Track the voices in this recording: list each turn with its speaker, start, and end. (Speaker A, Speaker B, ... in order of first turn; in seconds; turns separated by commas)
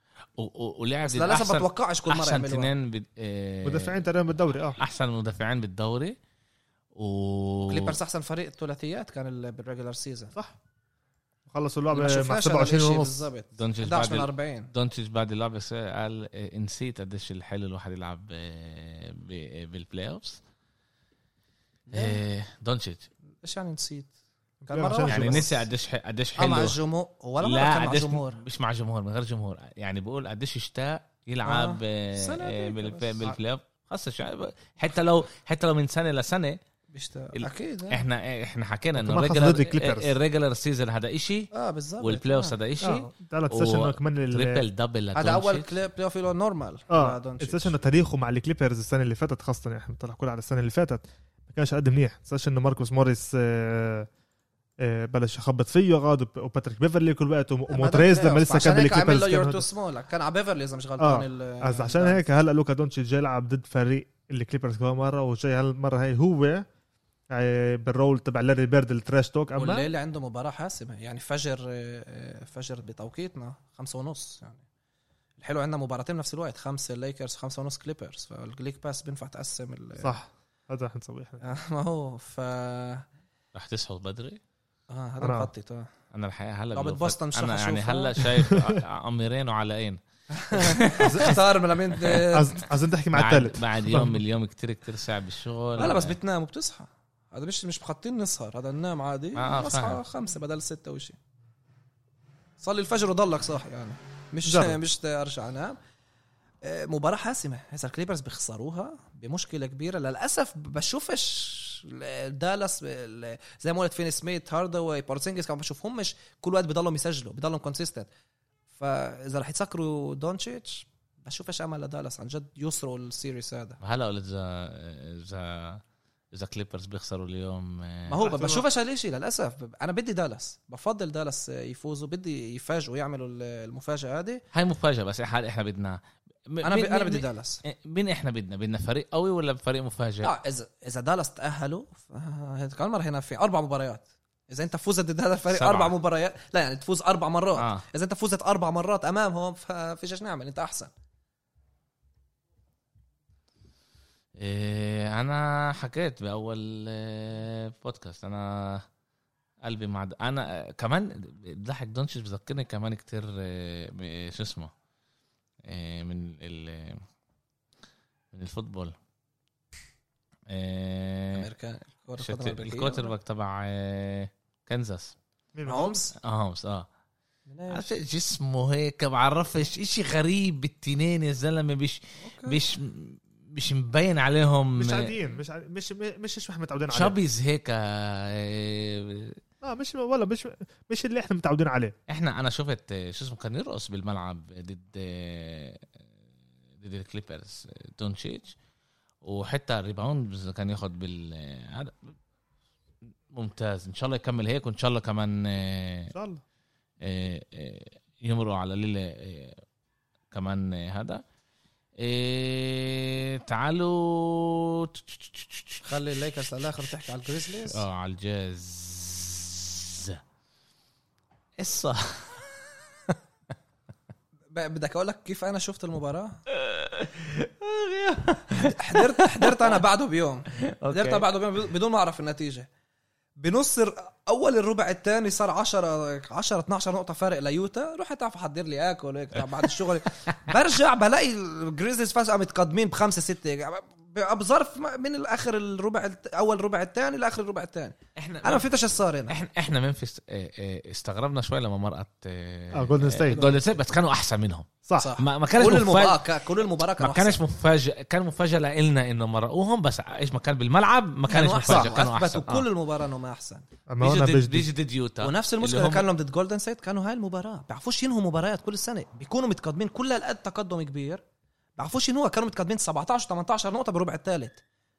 Speaker A: 0.4-4.0, Speaker B: 1.1-2.7, Speaker C: 3.6-4.8, Speaker A: 4.8-6.2, Speaker A: 6.9-8.0, Speaker B: 7.6-10.3, Speaker C: 11.5-13.3, Speaker B: 11.9-14.7, Speaker A: 13.6-20.4, Speaker B: 21.9-22.2, Speaker A: 21.9-23.1, Speaker B: 23.4-24.1, Speaker C: 24.6-25.5, Speaker B: 24.7-25.5, Speaker A: 25.1-26.8, Speaker B: 26.4-28.4, Speaker A: 27.4-36.6, Speaker B: 31.4-33.3, Speaker B: 36.9-38.0, Speaker A: 37.4-41.5, Speaker C: 39.0-40.1, Speaker B: 41.5-42.6, Speaker A: 42.0-45.7, Speaker C: 42.8-44.6, Speaker B: 45.1-47.7, Speaker C: 46.9-54.1, Speaker C: 54.8-59.6, Speaker B: 57.7-62.2, Speaker C: 61.0-66.6, Speaker C: 67.3-69.9, Speaker B: 69.6-74.6, Speaker B: 75.4-80.1, Speaker C: 80.0-81.4, Speaker B: 81.4-83.1, Speaker A: 83.5-84.4, Speaker B: 84.9-85.9, Speaker C: 85.2-85.5, Speaker A: 86.1-90.0, Speaker B: 86.7-88.2, Speaker C: 88.5-88.8, Speaker B: 90.3-92.5, Speaker A: 90.5-91.3, Speaker C: 91.0-91.4, Speaker A: 91.9-92.2, Speaker C: 92.3-94.2, Speaker A: 93.1-96.1, Speaker B: 95.8-101.2, Speaker A: 99.3-100.0, Speaker B: 102.6-105.8, Speaker C: 104.5-104.8, Speaker B: 106.6-118.1, Speaker B: 118.8-123.8, Speaker A: 123.8-128.2, Speaker B: 128.1-134.4, Speaker C: 128.2-128.6, Speaker A: 134.5-140.3, Speaker B: 136.6-137.6, Speaker B: 140.2-150.9, Speaker A: 145.5-145.9, Speaker A: 147.6-147.8, Speaker A: 154.4-158.9, Speaker A: 159.6-164.7, Speaker A: 165.7-167.0, Speaker A: 168.3-168.9, Speaker A: 170.5-171.5, Speaker B: 171.3-173.1, Speaker A: 172.2-175.1, Speaker C: 175.5-176.0, Speaker B: 175.7-176.1, Speaker A: 176.2-176.9, Speaker B: 177.5-177.9, Speaker A: 177.7-185.2, Speaker B: 182.2-182.6, Speaker C: 184.8-187.2, Speaker A: 186.9-189.4, Speaker C: 189.6-191.9, Speaker A: 192.1-196.0, Speaker A: 196.8-198.5, Speaker A: 199.2-202.1, Speaker A: 203.3-206.1, Speaker C: 206.1-206.4, Speaker A: 207.0-209.6, Speaker A: 210.3-211.2, Speaker A: 212.0-215.8, Speaker B: 215.8-217.8, Speaker A: 217.7-220.2, Speaker A: 221.6-223.2, Speaker B: 224.5-226.4, Speaker A: 226.5-229.8, Speaker B: 228.6-232.7, Speaker A: 230.6-231.3, Speaker B: 233.4-249.4, Speaker A: 240.1-240.4, Speaker A: 248.2-248.7, Speaker A: 249.3-256.3, Speaker C: 252.7-253.4, Speaker B: 253.3-253.7, Speaker C: 254.8-255.1, Speaker B: 254.9-257.4, Speaker A: 257.0-262.7, Speaker B: 261.3-263.7, Speaker C: 263.9-264.7, Speaker A: 264.0-266.1, Speaker B: 265.2-271.2, Speaker B: 271.8-274.6